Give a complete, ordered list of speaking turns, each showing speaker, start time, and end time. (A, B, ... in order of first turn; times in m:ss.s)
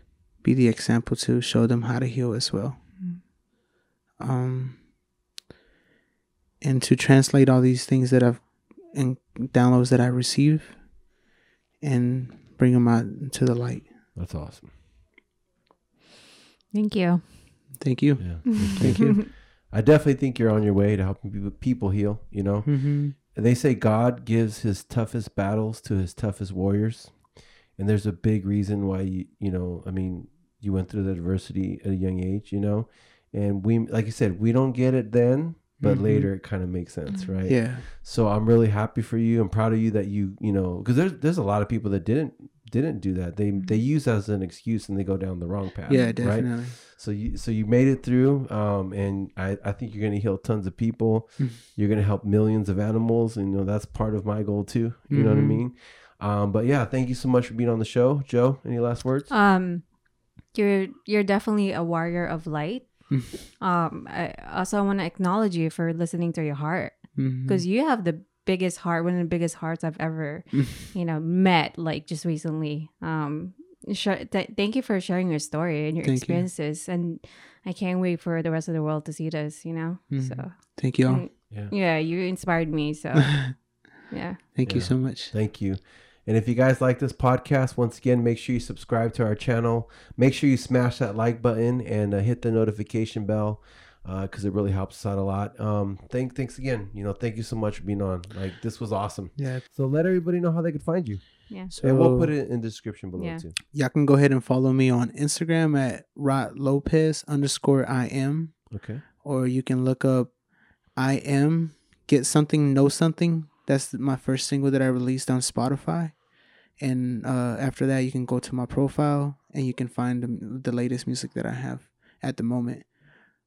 0:00.3-0:03.0 A
0:04.2-0:04.8 A
0:06.6-0:10.9 A
0:11.8-0:14.0 A
0:14.2-0:14.7 B
0:16.7-0:17.8 C
0:17.8-0:19.2 A
0:18.2-0:59.3 B
0:18.6-0:19.2 C
0:22.7-0:23.2 A
0:35.8-0:36.4 A
0:37.1-0:37.5 C
0:37.4-0:37.9 A
0:43.6-0:43.8 C
0:45.9-0:46.3 C
0:45.9-0:46.8 A
0:55.1-0:55.6 A
0:59.3-1:24.4 C
1:03.1-1:03.4 A
1:07.2-1:07.6 A
1:16.0-1:16.5 A
1:20.1-1:21.3 A
1:24.5-1:25.3 A
1:24.6-1:43.6 B
1:39.4-1:39.7 A
1:41.7-1:42.4 A
1:43.2-1:43.4 C
1:43.7-2:03.0 A
1:48.7-1:49.0 B